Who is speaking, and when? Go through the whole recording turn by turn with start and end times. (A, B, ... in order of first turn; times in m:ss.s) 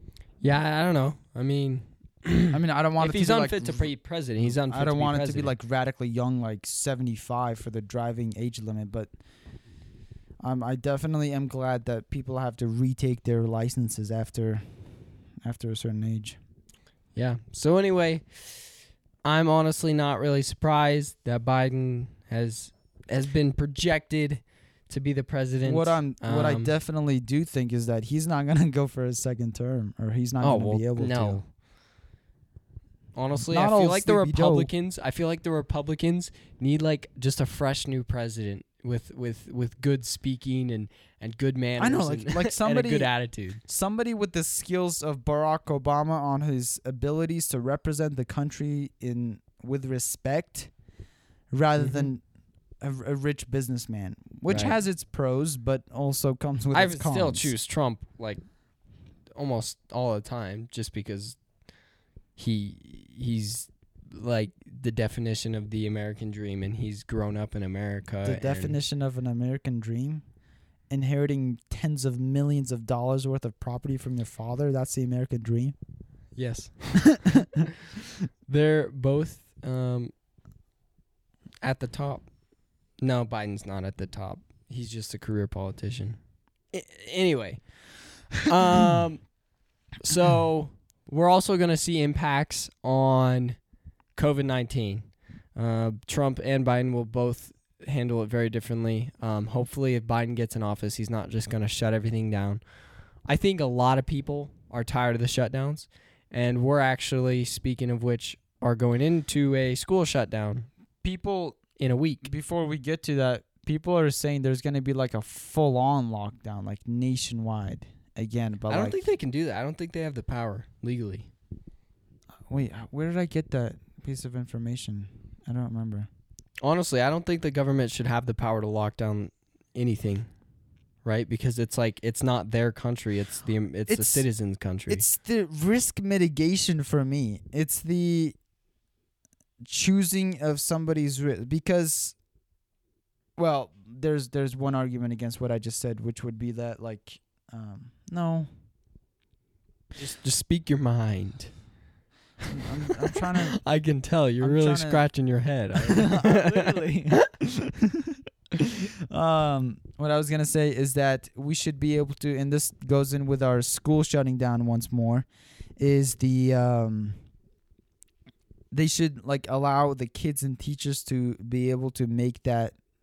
0:00.4-0:05.5 A
0:02.5-0:09.1 B
0:10.4-0:14.9 B
0:15.4-0:16.4 B
0:17.1-0:18.5 A
0:19.2-0:26.7 A
0:25.6-0:31.4 B
0:30.4-0:31.4 A
0:33.1-0:43.6 A
0:33.3-0:34.7 B
0:41.8-0:50.7 B
0:51.5-0:52.2 B
0:51.8-0:52.1 A
0:52.8-0:57.5 B
0:54.5-0:54.8 A
0:56.7-0:58.4 A
0:59.4-1:01.4 A
1:02.4-1:08.8 A
1:08.2-1:10.2 B
1:10.9-1:15.7 B
1:16.4-1:17.1 A
1:17.1-1:17.5 B
1:18.5-1:20.1 A
1:21.6-1:22.3 A
1:23.0-1:26.2 A
1:26.7-1:29.3 A
1:30.0-1:33.6 A
1:34.1-1:42.6 A
1:43.2-1:50.7 A
1:51.0-1:51.6 B
1:51.8-1:52.3 A
1:52.2-1:59.1 B
1:58.7-2:01.3 A
2:02.5-2:06.1 B
2:06.6-2:10.3 A
2:11.0-2:15.0 A
2:13.9-2:14.2 B
2:14.9-2:18.4 B
2:19.6-2:22.2 B
2:23.4-2:28.5 B
2:30.0-2:31.5 A
2:32.5-2:33.6 B
2:33.3-2:37.1 A
2:34.4-2:35.0 B
2:35.8-2:38.2 B
2:39.1-2:45.2 B
2:45.8-2:47.2 B
2:48.7-2:52.8 B